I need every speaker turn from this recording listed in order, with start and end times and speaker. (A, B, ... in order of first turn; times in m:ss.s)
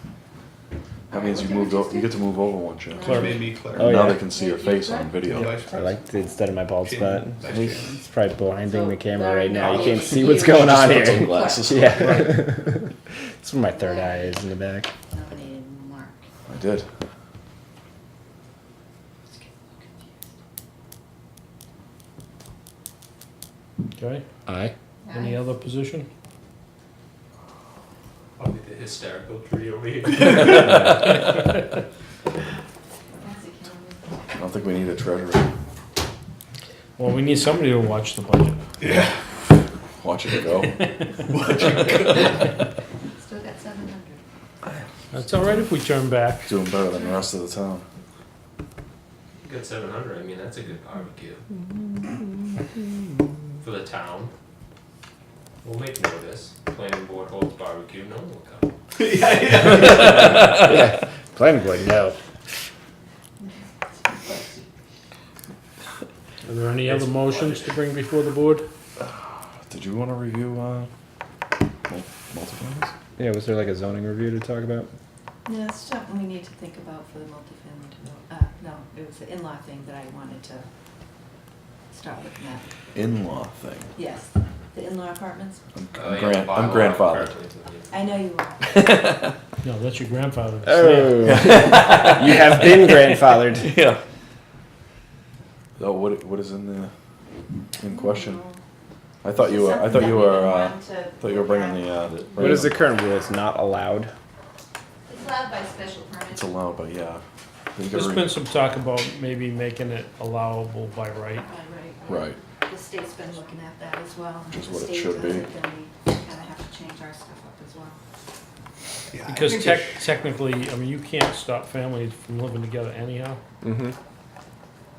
0:01.1-0:03.2 A
0:01.1-0:02.1 B
0:03.0-0:04.2 C
0:03.0-0:03.4 D
0:03.8-0:05.6 A
0:03.8-0:04.2 E
0:04.4-0:05.0 B
0:05.2-0:05.8 C
0:05.6-0:14.9 E
0:06.8-0:08.1 C
0:08.7-0:11.9 B
0:09.9-0:12.4 A
0:13.7-0:14.4 B
0:15.0-0:16.2 B
0:16.5-0:16.9 A
0:19.4-0:20.1 B
0:24.0-0:24.2 D
0:24.5-0:24.7 E
0:25.1-0:26.1 D
0:28.4-0:31.1 F
0:33.2-0:34.2 B
0:34.3-0:35.5 A
0:37.0-0:38.6 D
0:38.8-0:39.1 C
0:40.0-0:42.2 A
0:41.3-0:42.1 C
0:43.2-0:44.2 B
0:45.1-0:46.5 D
0:46.4-0:47.8 A
0:49.4-0:51.4 F
0:53.6-0:54.3 F
0:55.6-0:58.7 F
0:59.0-1:00.3 C
1:00.5-1:02.2 E
1:06.4-1:08.6 D
1:06.8-1:07.7 F
1:09.7-1:10.9 A
1:11.9-1:12.9 A
1:13.2-1:14.9 E
1:15.5-1:20.7 B
1:21.9-1:22.6 B
1:22.9-1:24.0 A
1:24.0-1:25.6 B
1:25.8-1:27.3 A
1:25.9-1:28.2 F
1:27.9-1:28.7 B
1:28.7-1:29.3 A
1:29.6-1:31.5 D
1:30.6-1:33.7 E
1:31.2-1:34.0 A
1:35.8-1:36.9 A
1:37.8-1:38.5 A
1:38.2-1:38.6 B
1:39.2-1:42.8 A
1:39.4-1:42.2 B
1:42.4-1:44.1 E
1:45.1-1:46.4 B
1:46.3-1:47.2 A
1:47.7-1:48.3 A
1:47.9-1:51.5 D
1:51.5-1:57.9 B
1:52.0-1:52.4 A
1:54.5-1:55.5 A
1:59.1-2:00.0 C
1:59.3-2:03.4 D
2:03.6-2:03.9 E